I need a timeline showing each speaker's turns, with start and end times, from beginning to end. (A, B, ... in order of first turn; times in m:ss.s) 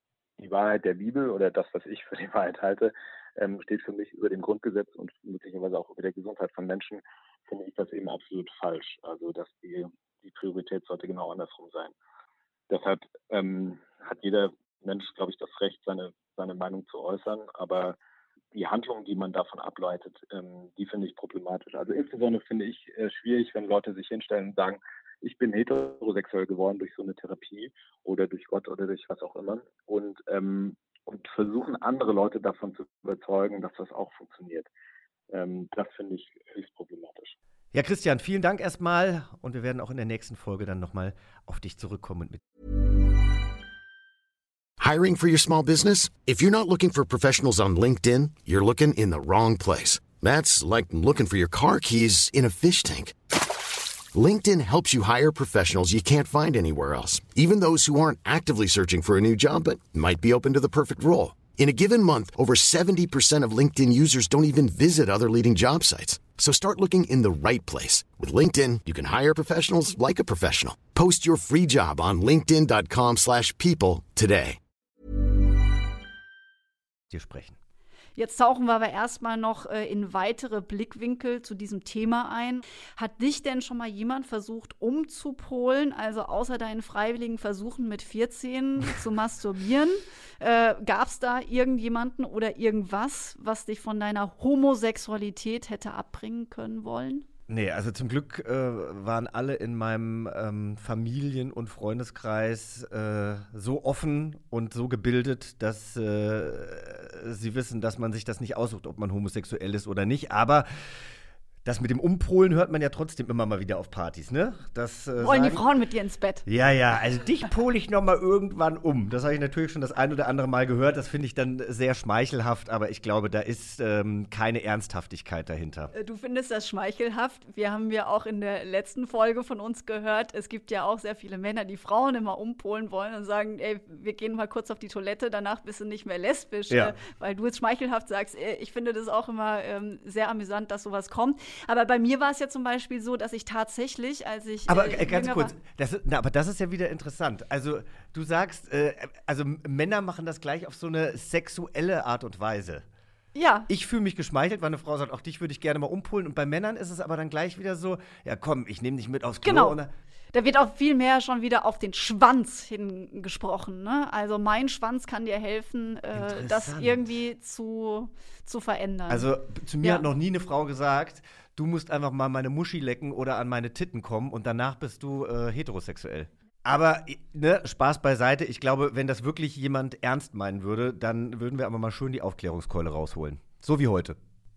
0:00.4-0:11.9 A
0:12.7-0:18.0 A
0:18.5-0:34.7 A
0:35.3-0:37.3 A
0:37.7-0:42.4 B
0:44.8-0:53.2 C
0:54.1-1:14.6 C
1:17.1-1:17.6 B
1:18.2-1:37.2 D
1:37.5-1:51.1 B
1:51.6-1:55.6 B
1:55.2-1:56.4 D
1:56.4-2:05.9 B
2:05.9-2:25.5 D
2:16.7-2:16.9 B
2:24.7-2:32.8 B
2:33.3-2:33.7 D
2:33.7-2:39.9 B
2:39.4-2:39.8 D
2:40.3-2:49.3 D
2:46.1-2:47.0 B
2:49.1-3:04.2 B